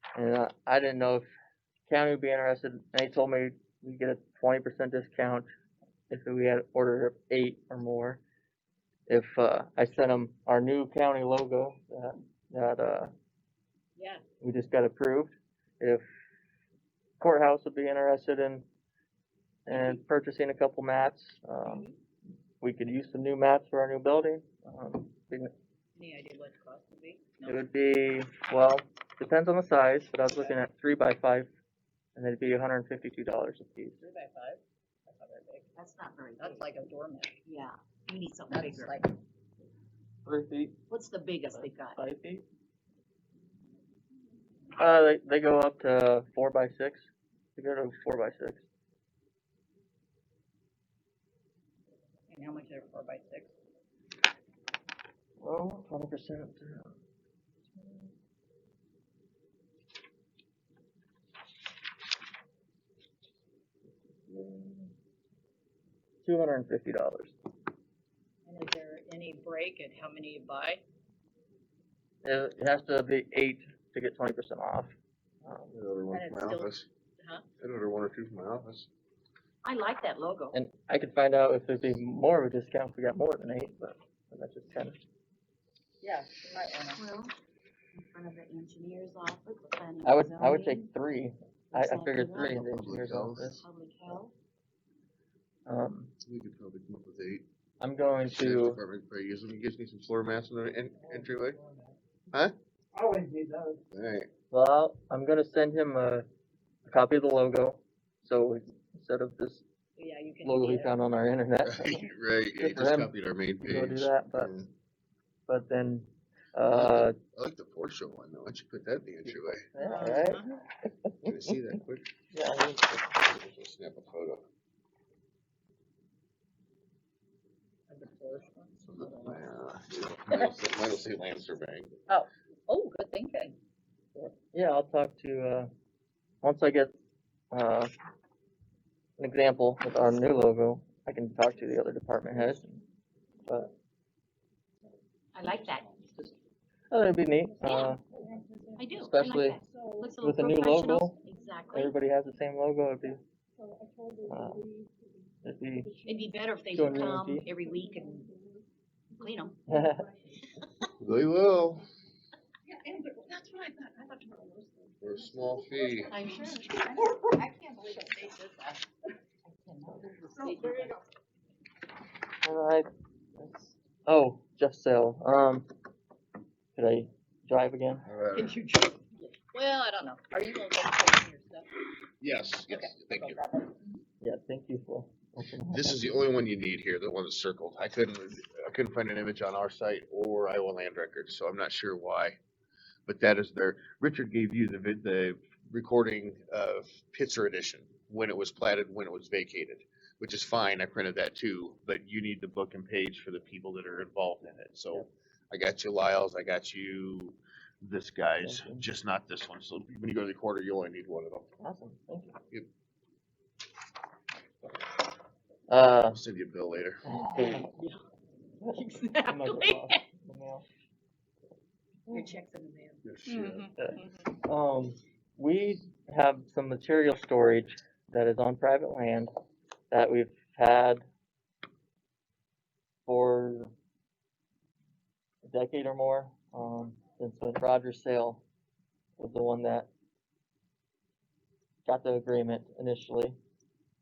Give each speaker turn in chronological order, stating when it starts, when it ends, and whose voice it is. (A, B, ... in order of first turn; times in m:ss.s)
0:00.2-0:01.2 A
0:01.9-0:05.5 A
0:06.1-0:08.2 A
0:09.1-0:13.1 A
0:14.0-0:14.2 B
0:14.4-0:16.0 A
0:17.2-0:18.6 A
0:19.7-0:21.9 A
0:19.7-0:20.0 B
0:21.6-0:22.0 B
0:22.6-0:25.5 A
0:26.0-0:27.7 B
0:27.4-0:31.5 A
0:32.2-0:34.0 A
0:34.0-0:35.7 B
0:35.8-0:36.7 C
0:36.4-0:37.4 B
0:37.4-0:39.0 C
0:38.5-0:39.2 B
0:40.2-0:40.7 A
0:40.9-0:42.0 C
0:41.5-0:42.4 A
0:44.8-0:48.6 A
0:52.3-0:53.5 B
0:55.4-0:56.9 A
0:57.8-0:58.1 A
1:04.3-1:04.9 A
1:06.2-1:07.3 A
1:08.4-1:10.8 B
1:12.2-1:14.9 A
1:15.4-1:15.7 A
1:15.7-1:16.9 D
1:16.1-1:17.4 B
1:17.6-1:18.9 D
1:19.6-1:20.6 C
1:20.5-1:25.0 A
1:26.0-1:27.0 B
1:27.0-1:27.3 C
1:27.9-1:30.9 C
1:30.0-1:33.6 A
1:31.7-1:32.9 C
1:32.7-1:33.5 D
1:33.5-1:34.3 C
1:35.7-1:36.1 A
1:36.2-1:37.4 D
1:37.8-1:38.8 A
1:38.3-1:41.6 D
1:41.6-1:41.9 B
1:43.9-1:44.3 D
1:44.5-1:46.2 A
1:46.9-1:49.6 A
1:50.0-1:51.0 B
1:50.4-1:54.6 A
1:51.6-1:54.7 D
1:55.5-1:57.2 A
1:56.7-1:59.7 D
1:59.7-2:01.2 A
1:59.8-2:00.6 B
2:01.2-2:02.1 D
2:02.3-2:03.1 A
2:03.1-2:04.4 D
2:07.9-2:09.4 B
2:08.8-2:12.0 D
2:12.1-2:13.6 B
2:14.2-2:15.7 A
2:16.4-2:16.9 A
2:17.5-2:17.9 A
2:19.2-2:22.8 A
2:23.5-2:23.7 A
2:25.3-2:25.9 C
2:26.9-2:28.1 A
2:27.6-2:27.9 C
2:28.2-2:28.8 E
2:28.8-2:31.9 C
2:29.0-2:29.6 A
2:29.8-2:30.1 E
2:30.2-2:31.2 A
2:31.7-2:33.2 A
2:33.6-2:34.9 E
2:34.3-2:34.7 A
2:35.4-2:35.9 A
2:36.0-2:36.3 E
2:36.1-2:38.3 C
2:36.7-2:37.5 A
2:39.2-2:39.6 C
2:39.7-2:40.1 A
2:41.0-2:41.9 D
2:44.3-2:45.0 E
2:45.0-2:46.1 D
2:46.1-2:48.2 C
2:48.1-2:48.8 B
2:49.4-2:50.9 C
2:50.4-2:51.0 B
2:52.4-2:55.7 A
2:56.8-2:58.0 A
2:58.0-2:58.6 D
2:58.3-3:01.7 B
3:02.2-3:03.4 D
3:02.7-3:03.8 B
3:04.2-3:06.0 A
3:05.7-3:12.4 D
3:13.1-3:31.5 D
3:28.4-3:28.8 A
3:31.6-3:32.4 A
3:35.7-3:36.2 A
3:36.1-3:37.1 D
3:37.1-3:37.7 A
3:38.6-3:40.0 B
3:39.2-3:40.6 A
3:42.1-3:44.3 B
3:43.0-3:43.7 D
3:43.8-3:49.3 A
3:49.9-3:51.1 A
3:53.1-3:53.7 A
3:55.4-3:58.4 A
3:59.2-3:59.9 A
4:01.9-4:03.4 A